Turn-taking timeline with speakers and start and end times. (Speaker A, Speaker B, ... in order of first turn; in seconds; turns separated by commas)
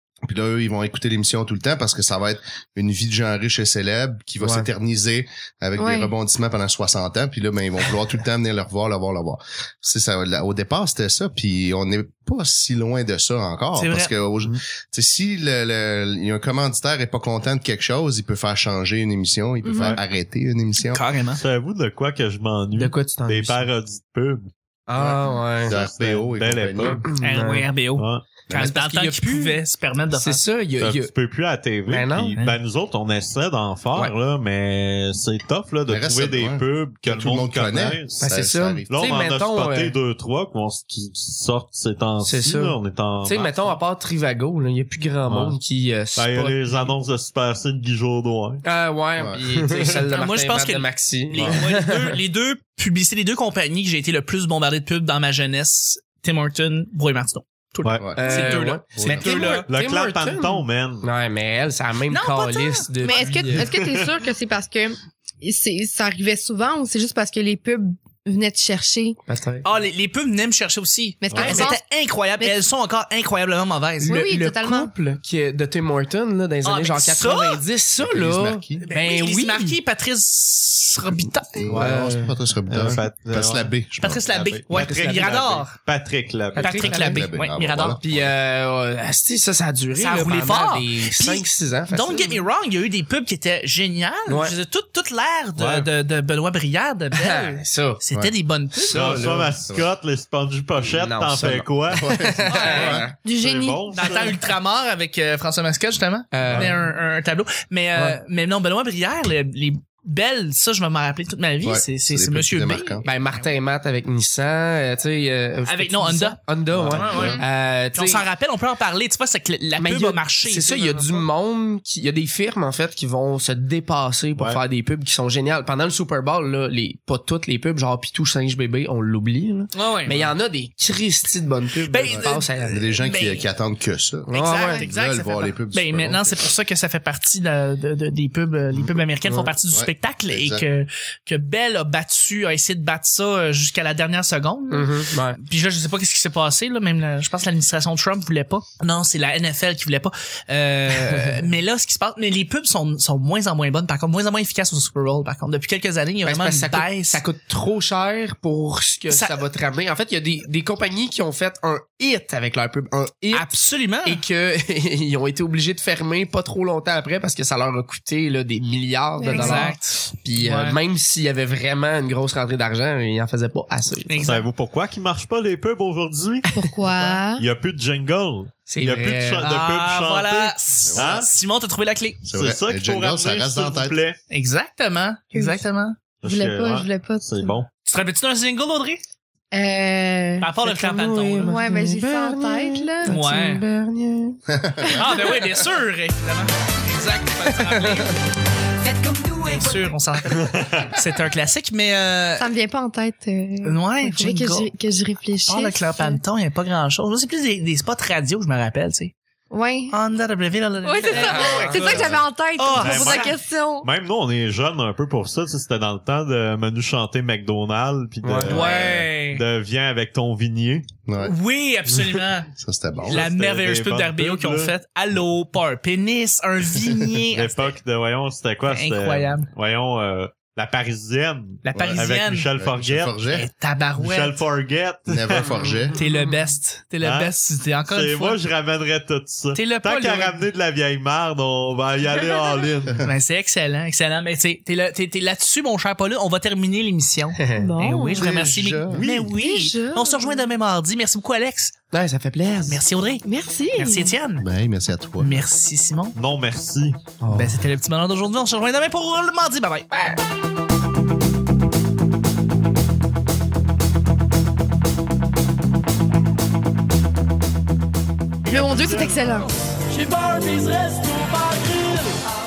Speaker A: 0.2-21.0, Speaker B: 4.4-4.7, Speaker C: 5.8-6.1, Speaker D: 13.8-14.1, Speaker C: 19.6-20.0, Speaker E: 19.7-20.0, Speaker D: 20.8-21.4, Speaker E: 21.3-27.1, Speaker B: 22.7-23.7, Speaker B: 24.9-25.7, Speaker A: 25.6-27.0, Speaker B: 26.9-27.7, Speaker D: 27.2-30.4, Speaker E: 28.0-28.3, Speaker B: 28.5-29.6, Speaker B: 30.1-31.1, Speaker E: 30.8-38.2, Speaker B: 31.9-32.4, Speaker A: 35.9-39.0, Speaker B: 38.2-40.0, Speaker E: 38.9-43.8, Speaker B: 42.2-46.9, Speaker E: 45.3-45.5, Speaker E: 46.1-48.6, Speaker B: 48.6-52.2, Speaker A: 49.2-49.5, Speaker E: 49.6-50.0, Speaker D: 49.9-59.7, Speaker E: 57.8-58.1, Speaker A: 58.0-59.5, Speaker B: 58.1-63.7, Speaker E: 59.7-61.1, Speaker D: 62.1-63.5, Speaker C: 63.0-69.2, Speaker E: 63.5-64.1, Speaker B: 69.3-69.7, Speaker D: 69.6-74.3, Speaker C: 71.2-71.8, Speaker E: 71.3-71.6, Speaker B: 74.0-79.8, Speaker C: 74.1-74.9, Speaker D: 76.6-77.6, Speaker A: 78.0-78.8, Speaker D: 78.8-81.6, Speaker A: 81.5-84.3, Speaker E: 81.7-82.1, Speaker B: 81.8-82.3, Speaker E: 82.7-83.7, Speaker D: 84.0-85.8, Speaker E: 84.3-86.9, Speaker B: 84.7-85.4, Speaker B: 86.5-87.2, Speaker D: 86.5-88.0, Speaker A: 86.8-88.3, Speaker B: 88.0-92.4, Speaker D: 90.0-99.1, Speaker B: 94.2-94.5, Speaker E: 95.6-95.9, Speaker B: 97.1-98.0, Speaker B: 98.8-99.5, Speaker A: 98.9-99.9, Speaker E: 98.9-102.2, Speaker B: 100.9-103.2, Speaker A: 101.9-103.1, Speaker D: 102.5-103.0, Speaker C: 103.2-103.8, Speaker E: 103.4-104.4, Speaker D: 103.9-113.5, Speaker B: 106.3-106.8, Speaker B: 107.9-108.2, Speaker A: 111.6-113.0, Speaker B: 113.0-118.2, Speaker D: 115.6-121.3, Speaker A: 116.7-117.4, Speaker E: 116.8-117.3, Speaker B: 119.8-132.8, Speaker D: 129.7-130.2, Speaker D: 131.9-133.4, Speaker A: 132.1-136.5, Speaker B: 134.3-134.8, Speaker D: 134.3-157.2, Speaker B: 139.2-139.5, Speaker A: 139.7-140.6, Speaker B: 144.7-145.4, Speaker B: 150.9-151.5, Speaker B: 156.2-163.5, Speaker D: 159.1-159.4, Speaker D: 163.3-164.2, Speaker B: 164.0-174.3, Speaker C: 169.2-169.7, Speaker D: 169.2-170.8, Speaker D: 174.1-174.4, Speaker E: 174.2-181.3, Speaker C: 176.5-177.4, Speaker B: 178.7-179.4, Speaker D: 179.4-182.2, Speaker A: 180.8-181.2, Speaker A: 182.2-184.0, Speaker E: 182.3-184.2, Speaker D: 184.3-186.0, Speaker E: 186.2-187.7, Speaker C: 186.2-187.5, Speaker D: 187.8-189.0, Speaker C: 189.5-190.5, Speaker D: 190.4-191.6, Speaker B: 190.6-195.6, Speaker C: 191.5-193.1, Speaker D: 193.0-193.6, Speaker A: 194.5-195.0, Speaker D: 194.9-198.2, Speaker B: 197.3-198.2, Speaker C: 198.8-199.8, Speaker D: 199.3-202.5, Speaker E: 200.3-200.9, Speaker C: 202.4-206.2, Speaker D: 203.6-204.7, Speaker D: 205.5-209.1, Speaker C: 209.5-209.9, Speaker D: 209.9-213.3, Speaker C: 210.8-213.9, Speaker B: 211.1-212.0, Speaker E: 212.7-220.8, Speaker B: 218.3-218.6, Speaker A: 218.3-218.7, Speaker D: 218.5-219.4, Speaker A: 221.1-221.3, Speaker D: 221.2-222.5, Speaker A: 222.5-223.3, Speaker E: 223.0-224.7, Speaker D: 223.1-227.8, Speaker E: 227.3-233.2, Speaker D: 228.7-229.5, Speaker D: 231.6-232.5, Speaker A: 231.7-233.5, Speaker D: 233.3-234.4, Speaker E: 234.0-235.5, Speaker A: 235.1-235.9, Speaker B: 235.4-236.4, Speaker D: 235.9-238.4, Speaker E: 237.0-237.3, Speaker E: 237.9-243.0, Speaker D: 239.5-240.4, Speaker D: 242.1-251.7, Speaker B: 247.3-247.8, Speaker C: 247.6-248.3, Speaker A: 248.1-249.1, Speaker E: 248.9-249.3, Speaker C: 249.3-250.4, Speaker B: 251.9-252.8, Speaker D: 252.6-253.2, Speaker C: 253.2-254.1, Speaker D: 253.8-254.5, Speaker A: 254.4-255.4, Speaker D: 255.2-256.1, Speaker E: 256.1-257.0, Speaker B: 257.2-257.6, Speaker D: 257.3-259.9, Speaker C: 268.4-269.5, Speaker E: 268.5-269.2, Speaker B: 270.1-271.1, Speaker D: 270.1-271.9